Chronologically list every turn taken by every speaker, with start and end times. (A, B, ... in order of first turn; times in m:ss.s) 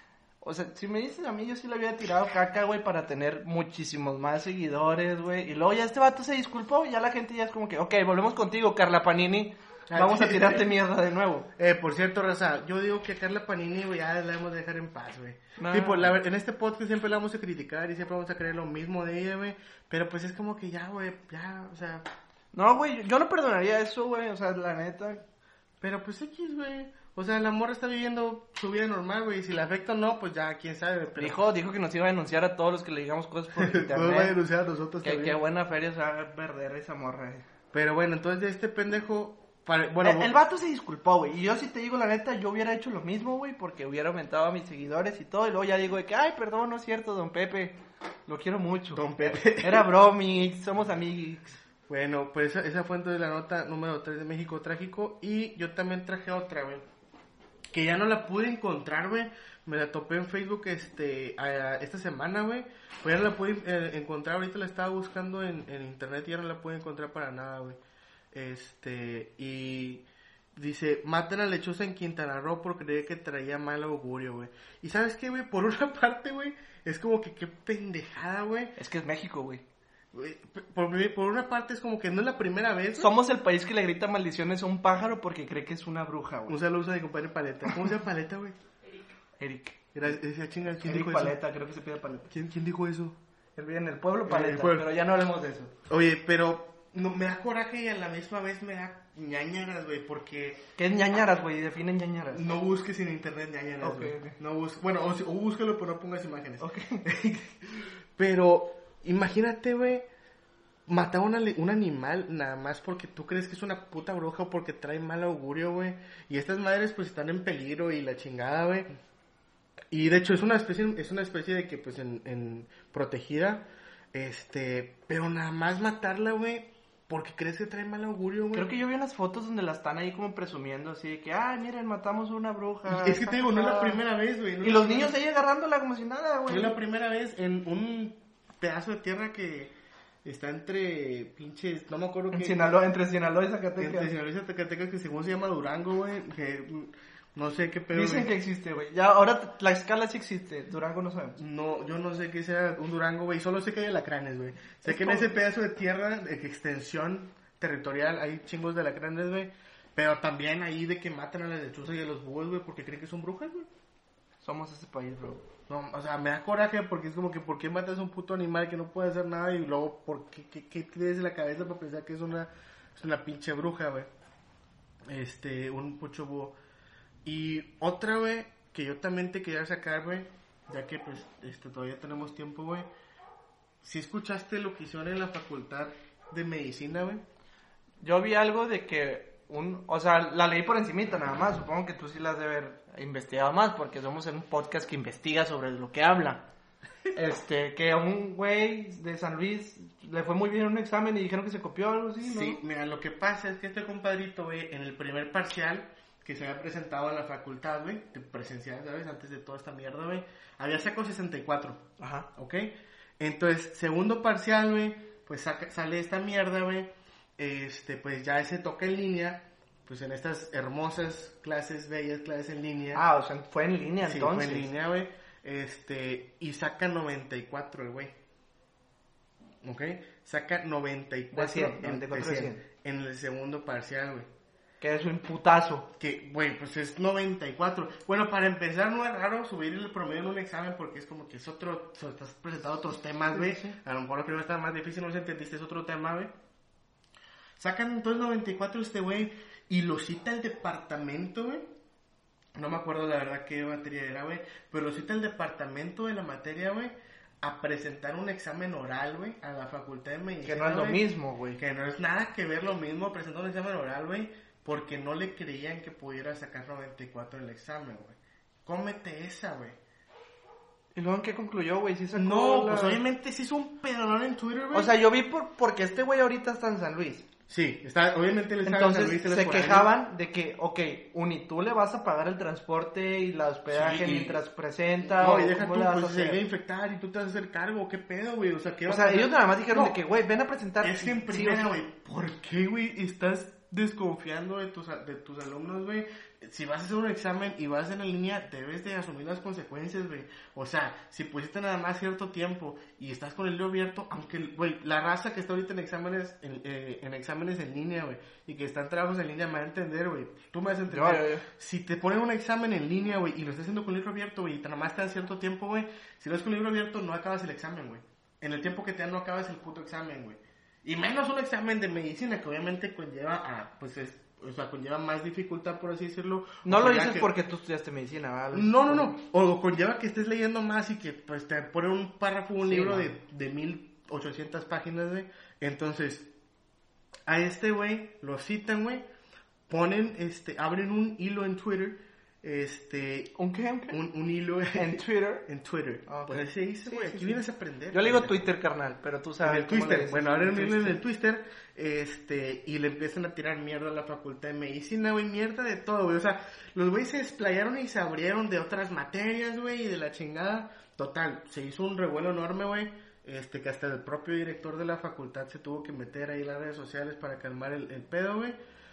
0:00.4-0:11.5 A
0:09.9-0:10.7 B
0:11.6-0:22.1 B
0:15.6-0:16.2 A
0:22.5-0:25.2 A
0:25.8-0:31.4 B
0:31.2-0:34.4 A
0:33.6-0:35.4 B
0:35.0-0:37.4 A
0:37.7-0:40.3 B
0:40.0-0:51.6 A
0:48.9-0:49.9 B
0:51.9-0:56.8 B
0:57.7-1:07.8 B
1:08.3-1:18.7 B
1:18.8-1:19.6 A
1:20.1-1:23.1 B
1:23.0-1:26.6 A
1:26.5-1:28.6 B
1:29.4-1:29.9 A
1:29.9-1:31.4 B
1:30.8-1:32.3 A
1:32.3-1:33.2 B
1:33.6-1:35.7 A
1:34.2-1:34.9 B
1:35.9-1:40.7 B
1:40.8-1:42.4 A
1:42.3-1:50.1 B
1:43.8-1:44.4 A
1:46.6-1:47.0 A
1:50.9-1:58.9 B
1:59.9-2:08.7 B
2:08.5-2:14.0 A
2:12.8-2:15.2 B
2:14.6-2:16.8 A
2:16.5-2:22.7 B
2:22.3-2:24.1 A
2:23.8-2:28.3 B
2:27.9-2:31.4 A
2:31.4-2:43.7 B
2:34.8-2:35.3 A
2:44.4-2:45.4 A
2:45.7-2:54.1 B
2:55.1-2:56.6 B
2:57.2-3:02.9 B
3:03.8-3:07.2 B
3:08.0-3:16.4 A
3:17.1-3:22.6 A
3:22.2-3:31.8 B
3:32.0-3:32.3 A
3:32.3-3:43.0 B
3:42.9-3:44.7 A
3:44.0-3:48.2 B
3:49.6-3:54.3 B
3:51.3-3:52.6 A
3:54.8-3:55.9 A
3:56.0-4:06.3 B
4:03.3-4:03.8 A
4:07.6-4:11.7 B
4:12.5-4:21.0 B
4:20.4-4:21.6 A
4:21.6-4:29.8 B
4:30.9-4:33.0 A
4:32.1-4:34.9 B
4:34.7-4:37.3 A
4:37.5-4:39.9 B
4:38.6-4:46.4 A
4:43.7-4:44.4 B
4:45.0-4:50.0 B
4:48.9-4:51.8 A
4:50.8-5:27.3 B
5:10.9-5:11.4 A
5:26.6-5:29.1 A
5:28.5-5:36.3 B
5:32.6-5:33.1 A
5:37.3-5:39.0 B
5:39.7-5:43.3 B
5:43.4-5:44.0 A
5:43.9-5:48.4 B
5:44.7-5:45.5 A
5:46.1-5:51.0 A
5:49.4-6:08.6 B